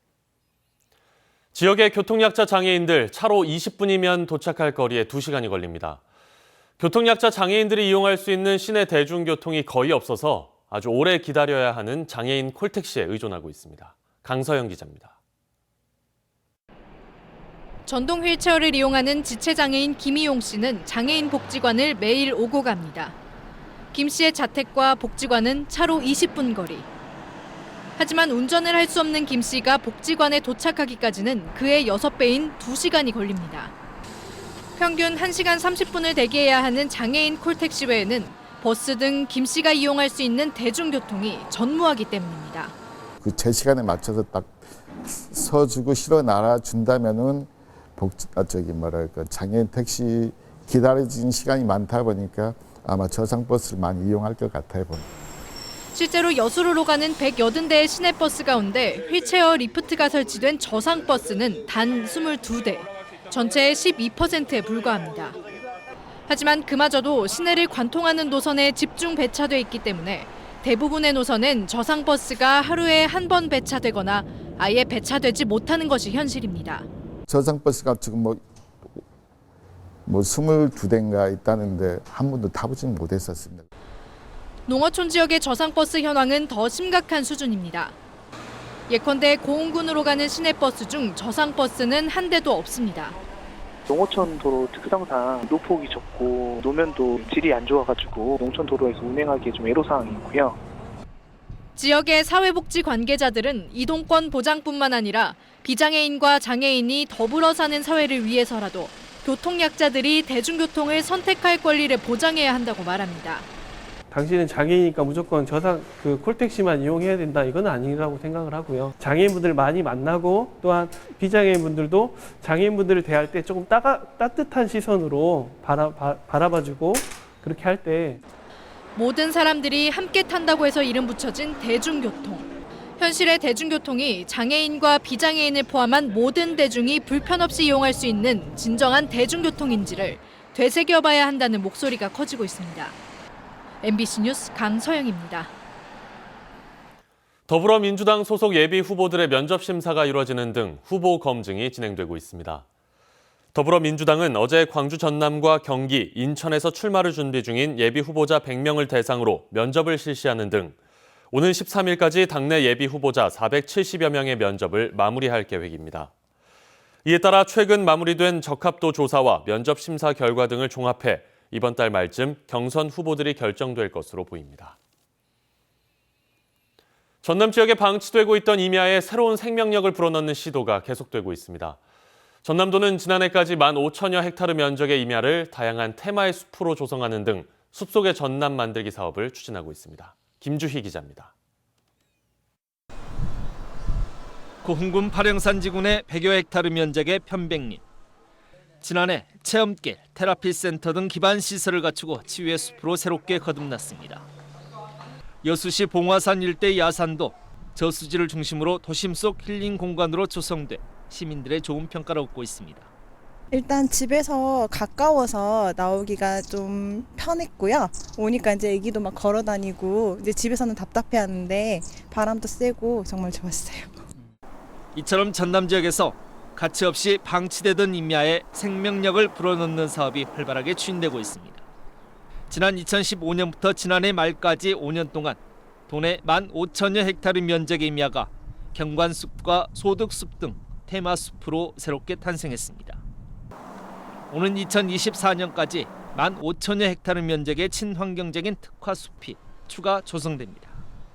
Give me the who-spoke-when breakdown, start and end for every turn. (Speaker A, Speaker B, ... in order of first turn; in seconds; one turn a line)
Speaker A: 1.5-6.0
Speaker A: 6.8-15.1
Speaker B: 17.9-23.2
Speaker B: 23.9-26.9
Speaker B: 28.0-33.7
Speaker B: 34.8-42.7
Speaker C: 43.2-44.5
Speaker C: 45.3-55.0
Speaker B: 55.9-65.4
Speaker B: 66.3-76.9
Speaker C: 77.3-78.4
Speaker C: 80.1-83.6
Speaker B: 84.7-87.9
Speaker B: 88.9-93.2
Speaker D: 93.9-100.5
Speaker B: 101.8-113.5
Speaker E: 114.1-128.2
Speaker B: 129.0-142.9
Speaker B: 143.8-145.5
Speaker A: 147.5-152.7
Speaker A: 153.5-160.8
Speaker A: 161.3-166.1
Speaker A: 167.0-174.8
Speaker A: 177.2-181.8
Speaker A: 182.4-191.3
Speaker F: 194.6-197.8
Speaker F: 198.8-204.2
Speaker F: 205.4-212.9
Speaker G: 213.5-224.0
Speaker F: 224.9-231.6
Speaker F: 232.5-235.4
Speaker F: 235.9-243.0
Speaker F: 244.3-250.7